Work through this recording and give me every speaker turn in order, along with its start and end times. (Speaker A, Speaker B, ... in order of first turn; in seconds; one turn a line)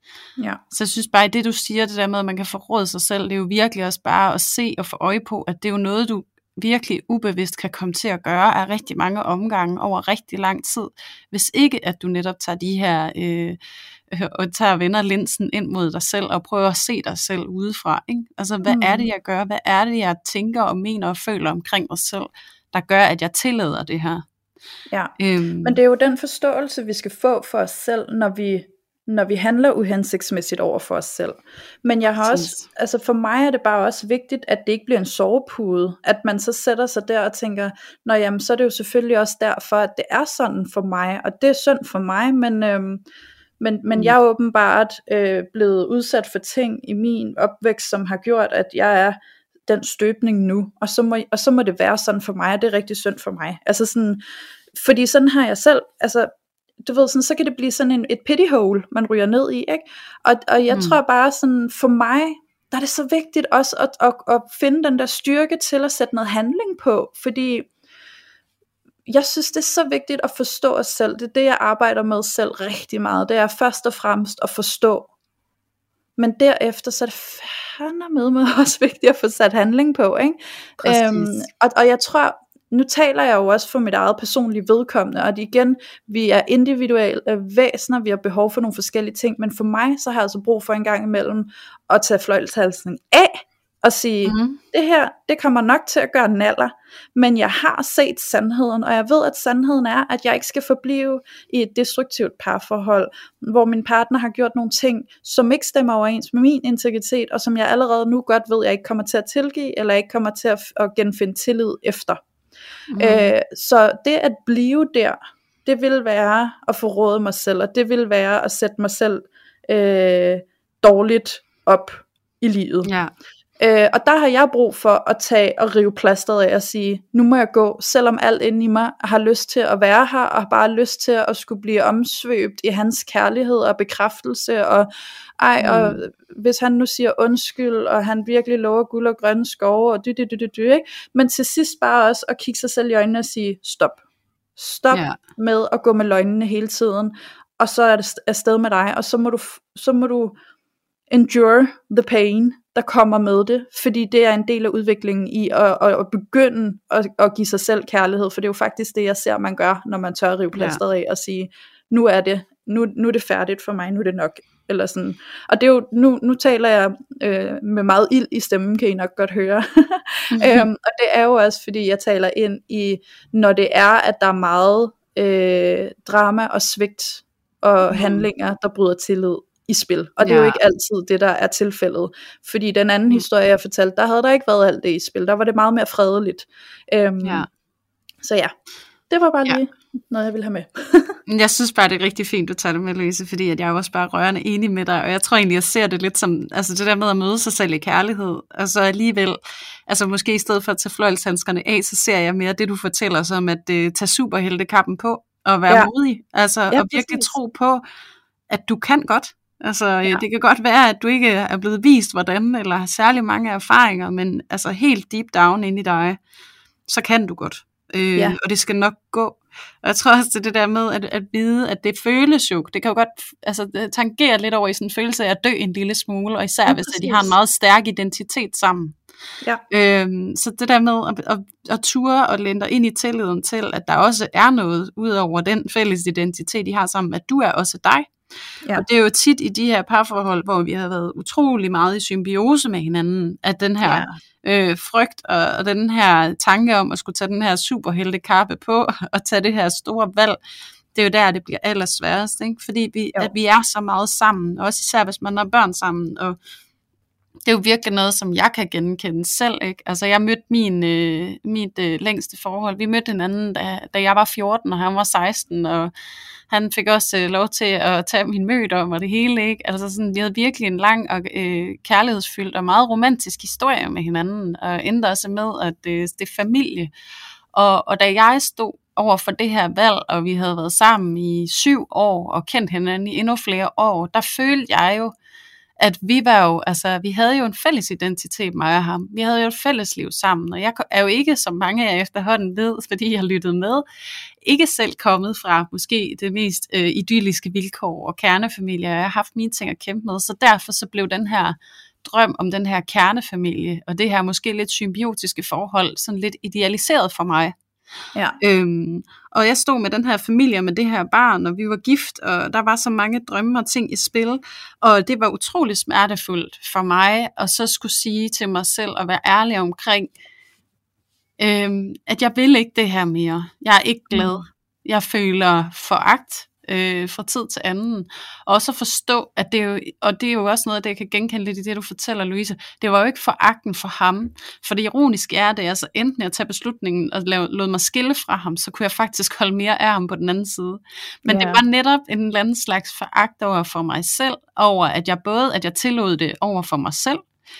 Speaker A: 0.7-13.6
Speaker A: 14.1-24.2
Speaker B: 18.6-19.1
Speaker B: 24.9-43.0
Speaker A: 25.2-25.8
Speaker A: 32.2-32.6
Speaker B: 43.6-54.2
Speaker B: 54.7-56.3
Speaker B: 56.8-67.7
Speaker A: 60.7-61.0
Speaker B: 69.1-75.1
Speaker B: 76.2-112.2
Speaker A: 80.8-81.4
Speaker A: 94.2-94.6
Speaker A: 112.9-113.3
Speaker B: 113.0-122.9
Speaker A: 122.8-123.1
Speaker B: 123.6-144.0
Speaker A: 135.6-136.0
Speaker B: 144.6-150.4
Speaker A: 144.9-145.2
Speaker B: 151.1-187.4
Speaker A: 160.5-160.8
Speaker A: 170.3-170.6
Speaker A: 177.9-178.2
Speaker A: 180.2-180.6
Speaker A: 187.2-187.5
Speaker B: 188.2-188.5
Speaker B: 189.1-191.2
Speaker A: 191.3-207.8
Speaker B: 206.7-207.3
Speaker A: 208.5-216.2
Speaker A: 216.9-229.0
Speaker B: 226.7-227.3
Speaker A: 229.7-238.1
Speaker A: 238.7-250.4
Speaker B: 243.8-244.2
Speaker A: 250.9-256.4
Speaker A: 257.4-265.9
Speaker A: 266.5-276.9
Speaker A: 277.5-285.1
Speaker A: 285.8-293.8
Speaker A: 294.4-307.5
Speaker A: 308.4-320.1
Speaker A: 321.4-347.2
Speaker B: 324.1-324.4
Speaker B: 341.2-341.6